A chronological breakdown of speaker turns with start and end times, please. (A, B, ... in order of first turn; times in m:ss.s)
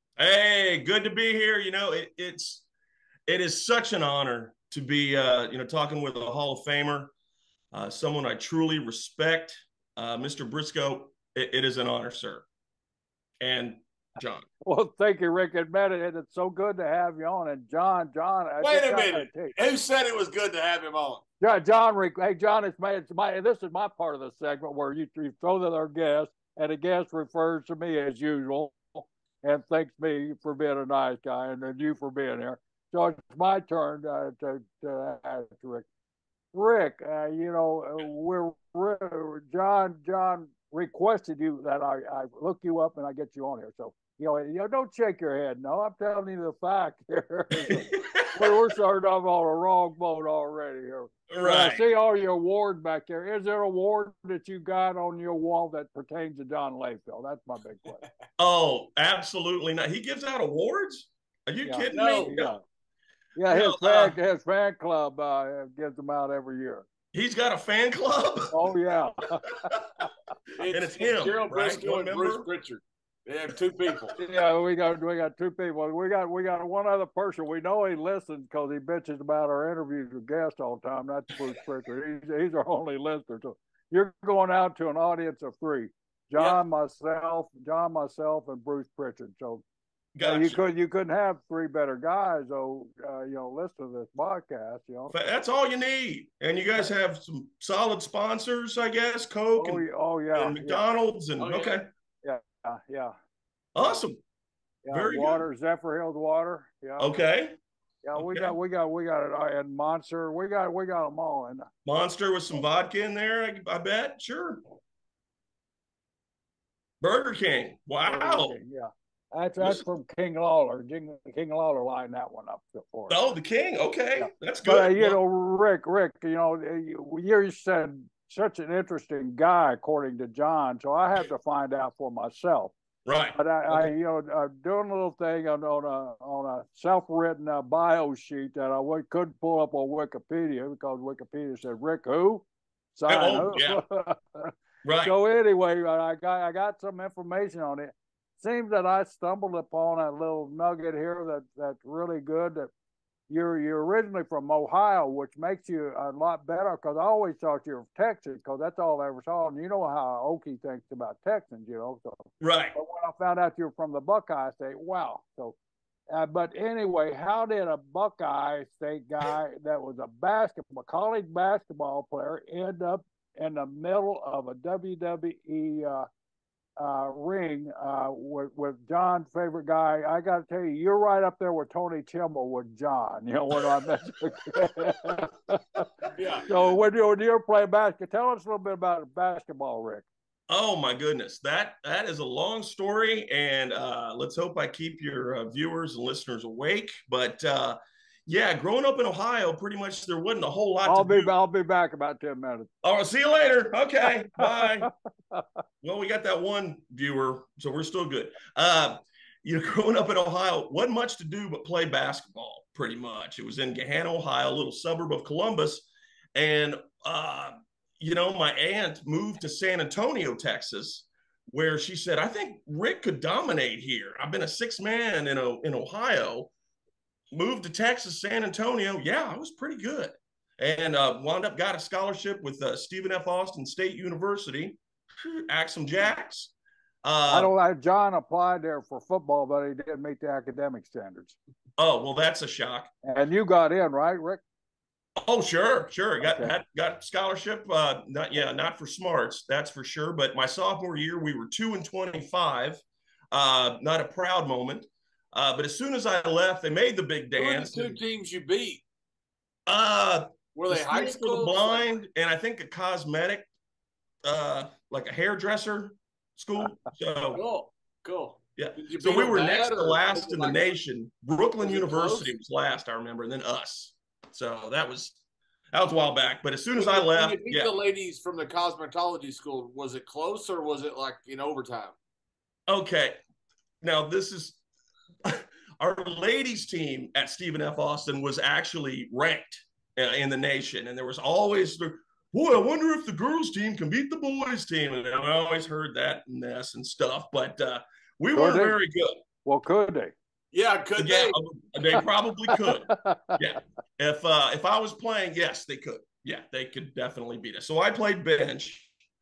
0:00.2-0:02.7 A
0:03.3-0:07.1 A
0:07.7-0:12.5 A
0:13.4-0:14.5 A
0:14.6-0:19.6 B
0:18.6-0:21.2 C
0:21.4-0:35.9 B
0:36.5-0:58.0 B
0:47.5-0:48.6 A
0:51.3-0:51.8 A
0:58.4-1:02.6 A
1:01.6-1:02.6 B
1:01.9-1:02.4 C
1:03.4-1:06.8 B
1:03.5-1:04.2 A
1:07.1-1:08.5 A
1:08.5-1:10.0 B
1:10.6-1:14.1 C
1:10.6-1:12.5 A
1:14.2-1:29.6 B
1:30.2-1:30.6 A
1:30.2-1:35.2 B
1:35.1-1:41.9 A
1:39.6-1:40.8 B
1:41.4-1:41.9 C
1:42.2-1:43.1 B
1:43.8-1:44.2 A
1:44.8-1:47.1 B
1:44.9-1:45.4 A
1:47.0-1:47.6 A
1:48.0-1:51.7 B
1:48.2-1:48.6 A
1:51.8-1:54.6 A
1:57.0-1:58.6 A
1:58.0-2:03.3 B
1:59.6-1:59.9 A
2:03.1-2:05.2 A
2:04.2-2:12.7 B
2:13.0-2:13.9 A
2:13.4-2:32.7 B
2:23.1-2:23.8 A
2:24.8-2:25.1 A
2:33.3-2:45.6 B
2:42.4-2:42.8 A
2:46.1-2:56.1 B
2:56.8-3:05.9 B
3:06.2-3:06.5 C
3:06.5-3:10.1 B
3:10.5-3:21.3 A
3:20.8-3:22.7 B
3:22.8-3:24.9 A
3:24.4-3:25.4 B
3:25.8-3:46.5 A
3:47.3-3:56.5 A
3:57.0-3:57.5 A
3:57.3-4:01.4 B
4:01.8-4:02.9 A
4:03.0-4:04.4 B
4:05.2-4:18.0 A
4:06.2-4:06.5 B
4:17.4-4:18.8 C
4:19.7-4:23.5 A
4:20.6-4:21.8 C
4:24.2-4:27.4 A
4:27.3-4:30.7 C
4:28.6-4:35.2 A
4:31.6-4:32.3 C
4:35.7-4:37.7 A
4:36.8-4:41.9 C
4:42.7-4:43.2 A
4:43.8-4:44.6 A
4:45.2-4:59.2 A
4:58.3-4:58.8 B
4:59.4-5:00.1 B
5:00.5-5:01.4 C
5:01.0-5:08.9 A
5:02.6-5:03.4 B